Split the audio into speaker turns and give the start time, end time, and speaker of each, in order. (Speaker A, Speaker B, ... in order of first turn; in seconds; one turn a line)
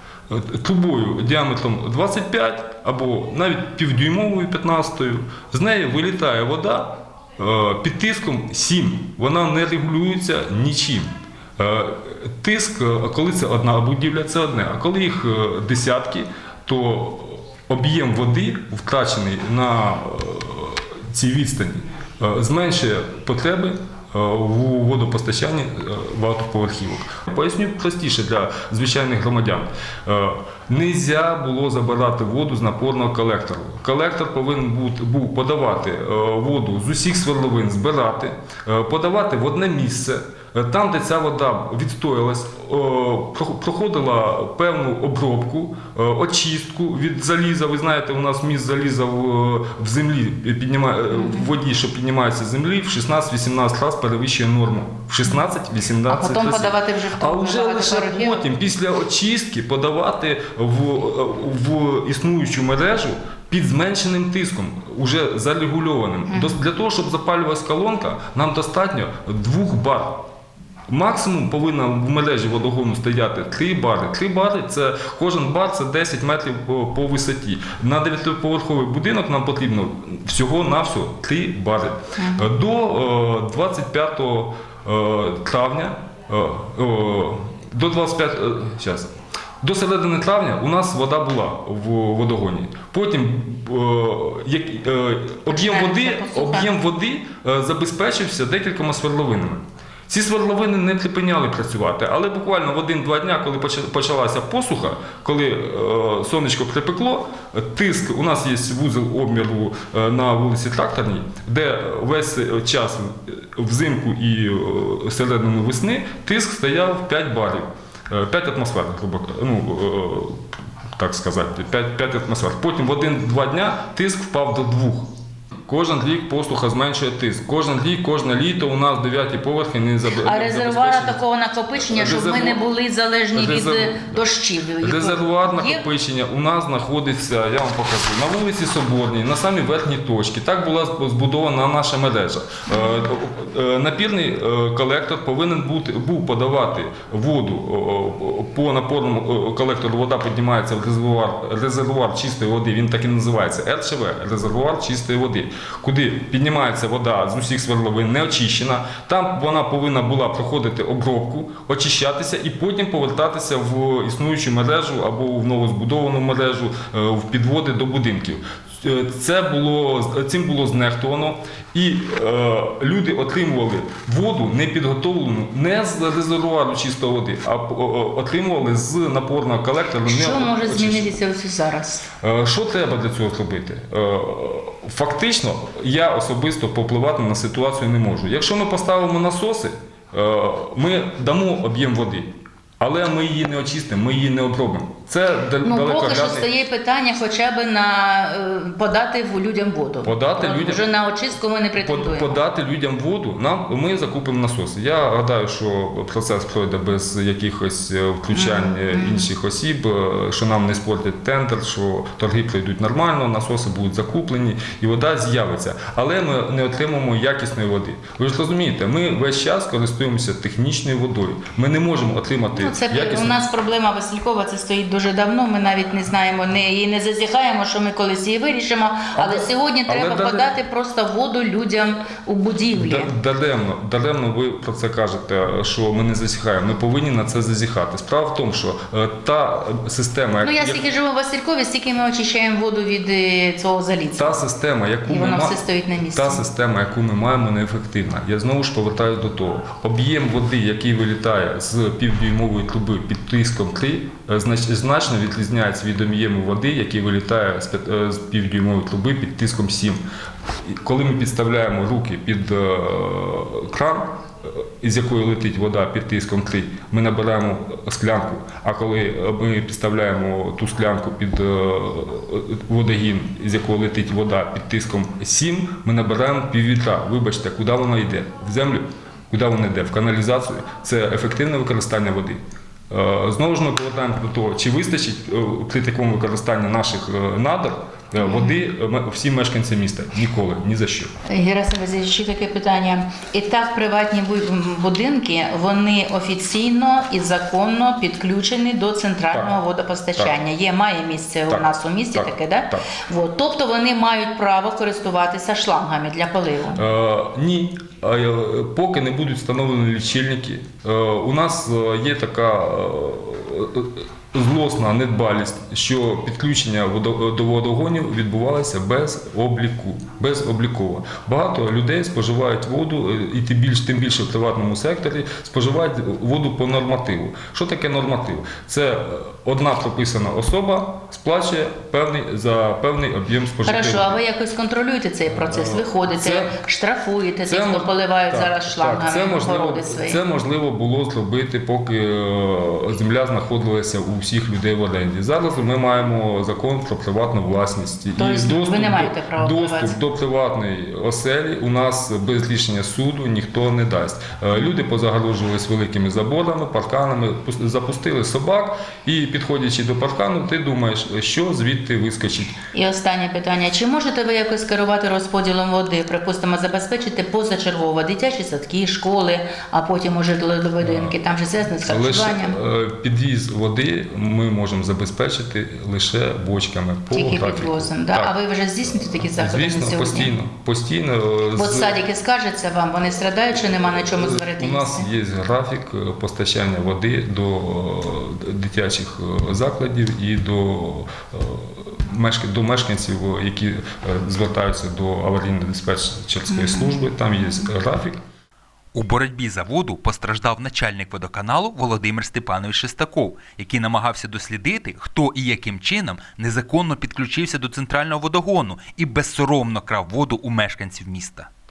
Speaker A: 0.3-70.2
Speaker B: 51.1-51.5
Speaker B: 56.1-58.5
Speaker B: 66.3-66.6
Speaker A: 70.9-120.4
Speaker B: 82.2-82.5
Speaker B: 95.5-96.7
Speaker A: 121.0-125.1
Speaker A: 125.7-131.2
Speaker B: 130.2-135.8
Speaker A: 131.8-132.6
Speaker A: 133.3-134.2
Speaker A: 134.8-181.2
Speaker B: 142.7-143.1
Speaker B: 180.1-182.1
Speaker A: 182.2-196.5
Speaker B: 195.6-202.4
Speaker A: 200.0-200.9
Speaker A: 201.8-223.4
Speaker B: 208.3-209.3
Speaker B: 222.5-233.1
Speaker A: 229.2-230.5
Speaker A: 232.7-240.8
Speaker B: 240.4-244.4
Speaker A: 244.2-260.0
Speaker B: 245.1-246.4
Speaker A: 260.6-291.1
Speaker B: 288.2-288.6
Speaker B: 291.3-306.8
Speaker A: 299.3-299.6
Speaker A: 301.5-302.8
Speaker A: 306.8-334.2
Speaker B: 333.6-340.2
Speaker A: 335.3-336.6
Speaker A: 337.5-362.6
Speaker B: 348.2-350.0
Speaker B: 362.7-372.6
Speaker A: 370.8-371.2
Speaker A: 371.8-378.3
Speaker B: 377.1-380.3
Speaker A: 379.4-382.0
Speaker B: 381.6-385.1
Speaker A: 383.9-398.2
Speaker B: 396.5-397.0
Speaker C: 398.9-411.5